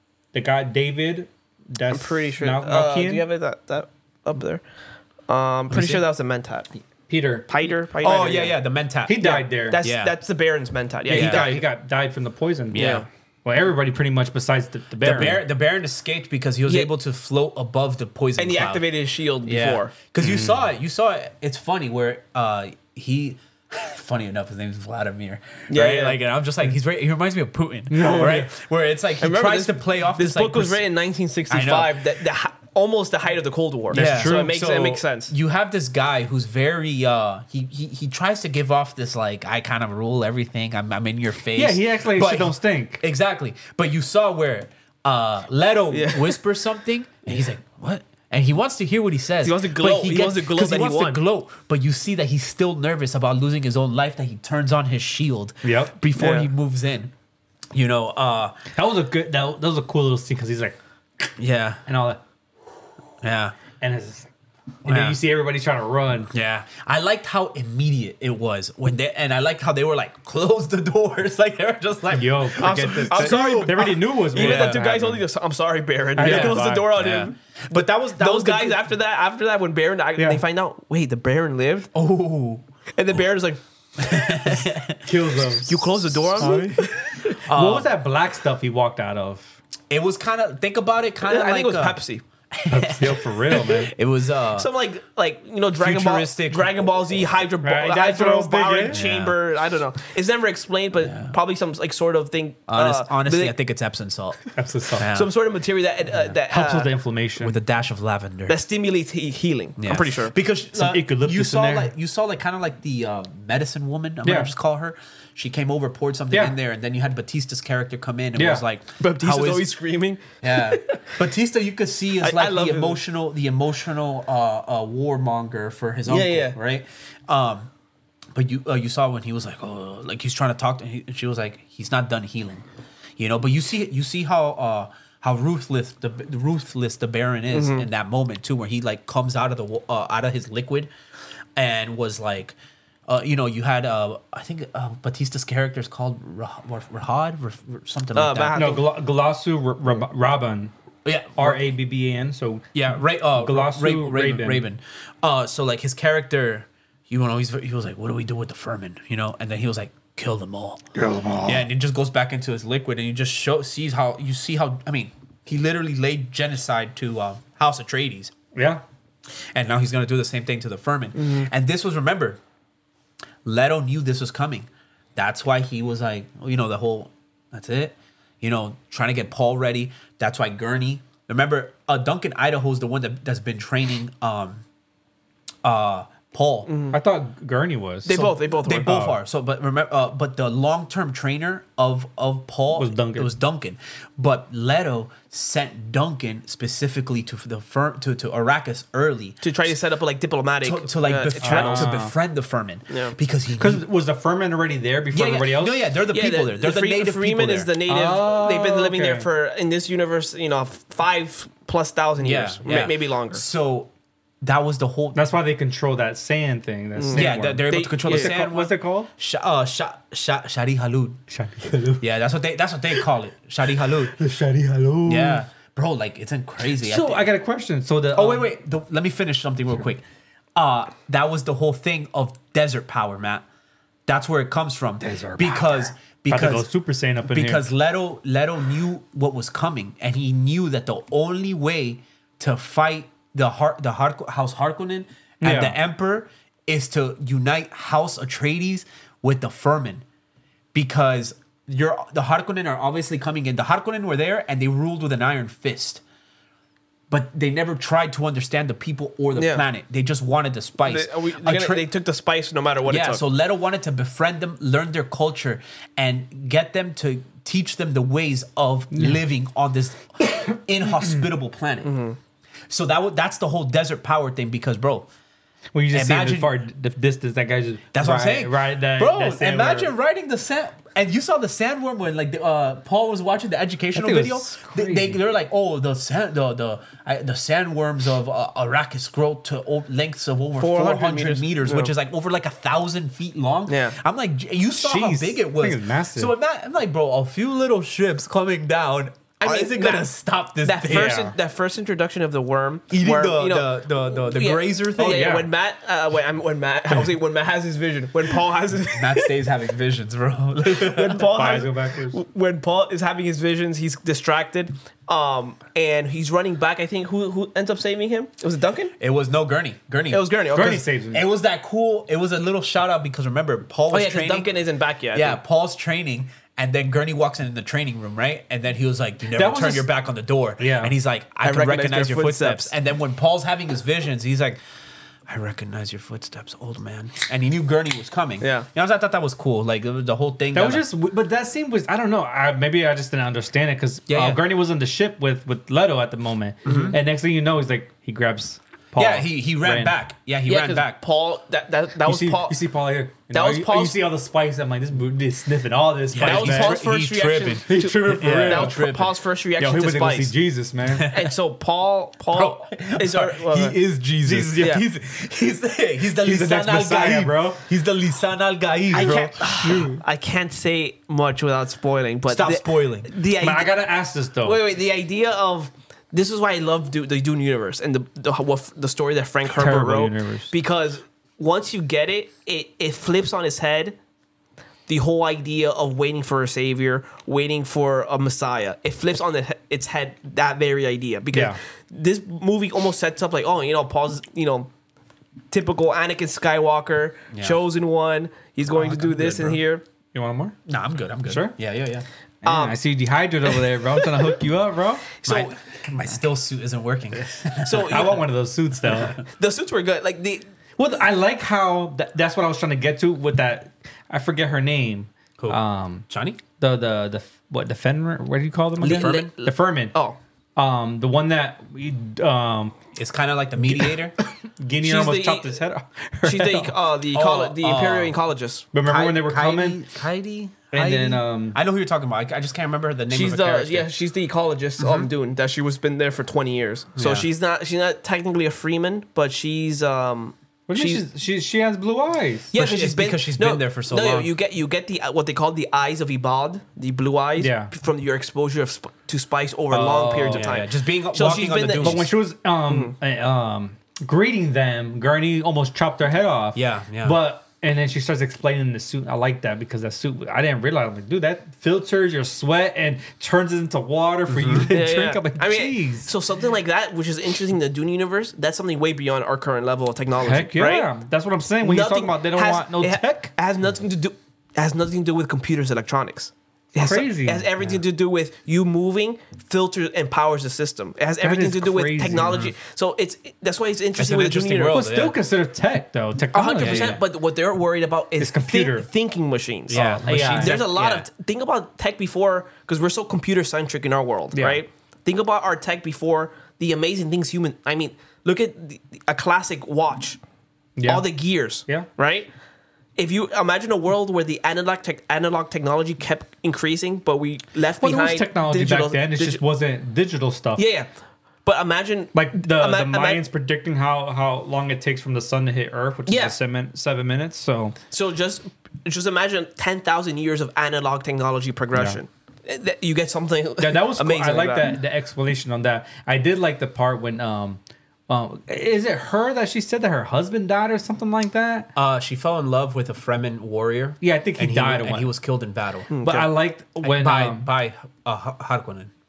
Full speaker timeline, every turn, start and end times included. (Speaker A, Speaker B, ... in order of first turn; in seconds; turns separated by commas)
Speaker A: 0.3-3.2, Speaker B: 1.9-4.6, Speaker B: 5.3-6.7, Speaker C: 5.7-6.0, Speaker A: 7.1-7.5, Speaker B: 7.5-8.6, Speaker C: 8.0-10.2, Speaker A: 9.1-9.8, Speaker B: 9.2-11.6, Speaker A: 11.1-15.4, Speaker C: 11.1-11.5, Speaker C: 12.7-13.1, Speaker B: 12.7-13.1, Speaker C: 15.0-18.9, Speaker B: 18.4-19.9, Speaker C: 19.4-30.8, Speaker A: 20.2-20.5, Speaker B: 25.7-26.2, Speaker A: 27.9-28.5, Speaker B: 29.2-35.3, Speaker C: 31.5-32.0, Speaker A: 33.9-34.5, Speaker C: 33.9-57.1, Speaker A: 41.5-43.0, Speaker B: 45.9-46.4, Speaker B: 49.4-51.2, Speaker A: 55.6-56.0, Speaker B: 56.2-56.5, Speaker C: 57.7-58.6, Speaker A: 58.7-61.3, Speaker C: 61.4-61.8, Speaker A: 61.9-62.2, Speaker C: 63.2-63.6, Speaker A: 63.8-64.3, Speaker A: 64.8-66.3, Speaker C: 64.9-65.2, Speaker C: 66.3-75.0, Speaker A: 72.1-75.2, Speaker B: 72.6-81.9, Speaker A: 76.2-76.9, Speaker C: 76.2-78.8, Speaker A: 80.2-80.4, Speaker C: 81.9-82.6, Speaker B: 83.0-84.6, Speaker C: 84.0-86.6, Speaker A: 85.1-85.7, Speaker B: 85.7-87.4, Speaker A: 86.4-86.9, Speaker C: 87.5-87.9, Speaker A: 87.5-89.6, Speaker C: 89.9-92.0, Speaker B: 91.2-92.2, Speaker C: 92.5-94.7, Speaker A: 92.7-93.9, Speaker B: 94.5-103.5, Speaker C: 95.8-96.9, Speaker A: 97.6-99.0, Speaker C: 98.9-99.4, Speaker C: 101.0-101.3, Speaker C: 102.7-105.3, Speaker A: 104.5-105.1, Speaker B: 105.1-106.9, Speaker A: 106.5-107.6, Speaker C: 107.4-108.6, Speaker B: 108.5-110.3, Speaker C: 109.8-119.7, Speaker A: 110.7-111.9, Speaker A: 114.2-114.5, Speaker A: 118.3-118.6, Speaker B: 119.0-121.1, Speaker C: 120.4-127.7, Speaker B: 122.2-123.0, Speaker B: 126.1-126.6, Speaker C: 128.3-132.7, Speaker C: 133.2-140.9, Speaker B: 137.5-137.9, Speaker C: 141.6-142.6, Speaker C: 143.1-148.6, Speaker B: 148.2-148.9, Speaker A: 148.6-150.7, Speaker C: 151.1-151.6, Speaker A: 151.4-152.7, Speaker C: 152.7-160.8, Speaker A: 153.4-154.6, Speaker A: 160.9-161.7, Speaker C: 161.4-168.3, Speaker A: 168.6-168.8, Speaker C: 169.5-172.4, Speaker B: 171.2-171.5, Speaker C: 173.4-184.6, Speaker C: 185.6-186.7, Speaker B: 186.7-187.0, Speaker A: 186.9-189.2, Speaker B: 188.1-189.0, Speaker C: 188.1-199.7, Speaker A: 192.8-193.3, Speaker B: 199.4-202.0, Speaker C: 200.6-203.8, Speaker A: 201.4-202.1, Speaker B: 202.9-203.2, Speaker A: 203.6-205.8, Speaker C: 205.1-207.7, Speaker B: 206.1-213.4, Speaker A: 207.9-209.3, Speaker C: 212.2-213.9, Speaker C: 214.4-215.3, Speaker A: 215.1-219.1, Speaker B: 217.0-218.3, Speaker C: 217.1-221.2, Speaker A: 221.3-222.1, Speaker C: 222.0-224.2, Speaker A: 224.1-225.4, Speaker C: 225.1-227.3, Speaker A: 226.8-228.5, Speaker C: 228.1-230.0, Speaker C: 230.6-233.4, Speaker C: 234.1-236.7, Speaker A: 235.0-237.7, Speaker C: 237.2-250.0, Speaker A: 245.4-245.8, Speaker C: 250.7-256.0, Speaker C: 257.1-261.9, Speaker B: 259.4-259.6, Speaker B: 260.9-263.2, Speaker C: 262.9-271.9, Speaker A: 268.9-269.2, Speaker B: 271.8-272.2, Speaker C: 272.7-275.1, Speaker A: 275.8-279.9, Speaker C: 275.9-276.5, Speaker C: 277.9-301.2, Speaker A: 283.9-285.2, Speaker B: 290.6-291.9, Speaker B: 293.7-294.0, Speaker A: 294.8-296.3, Speaker B: 299.4-300.1, Speaker B: 300.6-309.4, Speaker A: 300.9-301.3, Speaker C: 302.9-305.4, Speaker A: 305.0-305.5, Speaker C: 308.9-311.3, Speaker B: 310.7-318.9, Speaker A: 311.2-312.2, Speaker C: 319.0-324.5, Speaker B: 320.1-320.9, Speaker A: 320.5-321.3, Speaker B: 323.9-325.4, Speaker C: 325.1-334.6, Speaker A: 329.3-329.9, Speaker A: 330.6-330.9, Speaker B: 331.4-332.7, Speaker C: 335.3-340.8, Speaker B: 338.4-338.7, Speaker A: 340.5-349.9, Speaker C: 344.1-344.4, Speaker C: 346.6-347.0, Speaker B: 346.7-346.9, Speaker C: 349.0-351.0, Speaker B: 350.5-352.6, Speaker A: 352.1-356.8, Speaker B: 353.3-354.0, Speaker C: 356.1-359.1, Speaker B: 356.2-360.3, Speaker A: 357.6-358.9, Speaker A: 359.6-361.1, Speaker C: 360.9-361.3, Speaker B: 361.1-363.8, Speaker C: 362.3-369.9, Speaker A: 364.2-364.7, Speaker B: 364.6-364.8, Speaker A: 366.2-367.6, Speaker A: 368.9-370.0, Speaker B: 368.9-373.8, Speaker C: 372.3-373.1, Speaker A: 373.4-374.6, Speaker B: 374.4-384.0, Speaker A: 379.5-380.5, Speaker B: 384.9-394.7, Speaker A: 391.3-391.6, Speaker B: 395.5-399.8, Speaker C: 397.3-397.6, Speaker C: 398.8-399.6, Speaker A: 400.1-400.6, Speaker C: 400.7-402.1, Speaker A: 401.3-401.6, Speaker A: 402.4-405.1, Speaker B: 402.4-402.8, Speaker B: 403.5-404.3, Speaker B: 405.2-405.5, Speaker C: 405.2-408.2, Speaker B: 407.6-408.2, Speaker A: 407.9-409.2, Speaker B: 409.2-410.4, Speaker A: 410.8-416.1, Speaker C: 415.4-416.4, Speaker A: 416.6-419.9, Speaker C: 418.8-419.3, Speaker B: 418.8-420.2, Speaker A: 420.6-422.8, Speaker C: 422.9-424.1, Speaker A: 424.6-426.8, Speaker B: 424.8-425.6, Speaker B: 426.2-428.7, Speaker C: 427.1-428.1, Speaker A: 428.7-429.8, Speaker C: 428.9-433.9, Speaker A: 430.7-431.6, Speaker B: 433.1-441.0, Speaker C: 434.8-435.1, Speaker C: 437.0-437.3, Speaker A: 440.7-442.5, Speaker B: 442.5-452.1, Speaker C: 442.5-444.3, Speaker A: 447.4-447.7, Speaker A: 449.7-450.5, Speaker C: 450.3-452.1, Speaker A: 451.8-466.1, Speaker B: 452.7-452.9, Speaker C: 456.6-457.2, Speaker C: 464.3-464.7, Speaker B: 464.7-470.9, Speaker A: 470.2-473.3, Speaker B: 471.6-484.8, Speaker A: 476.8-477.5, Speaker A: 481.2-482.4, Speaker C: 482.2-482.5, Speaker C: 484.0-485.2, Speaker A: 484.7-487.0, Speaker B: 486.3-500.2, Speaker C: 486.6-487.0, Speaker A: 488.2-488.9, Speaker C: 489.7-491.1, Speaker A: 489.7-490.6, Speaker A: 494.3-494.6, Speaker A: 500.8-501.1, Speaker B: 500.9-502.3, Speaker B: 503.0-509.4, Speaker A: 507.8-510.6, Speaker B: 510.6-510.9, Speaker B: 511.4-513.2, Speaker A: 512.1-517.8, Speaker B: 516.1-516.4, Speaker B: 517.9-524.7, Speaker A: 523.6-531.7, Speaker C: 531.8-536.0, Speaker A: 534.0-535.1, Speaker B: 535.9-536.3, Speaker A: 536.0-537.5, Speaker C: 536.8-538.9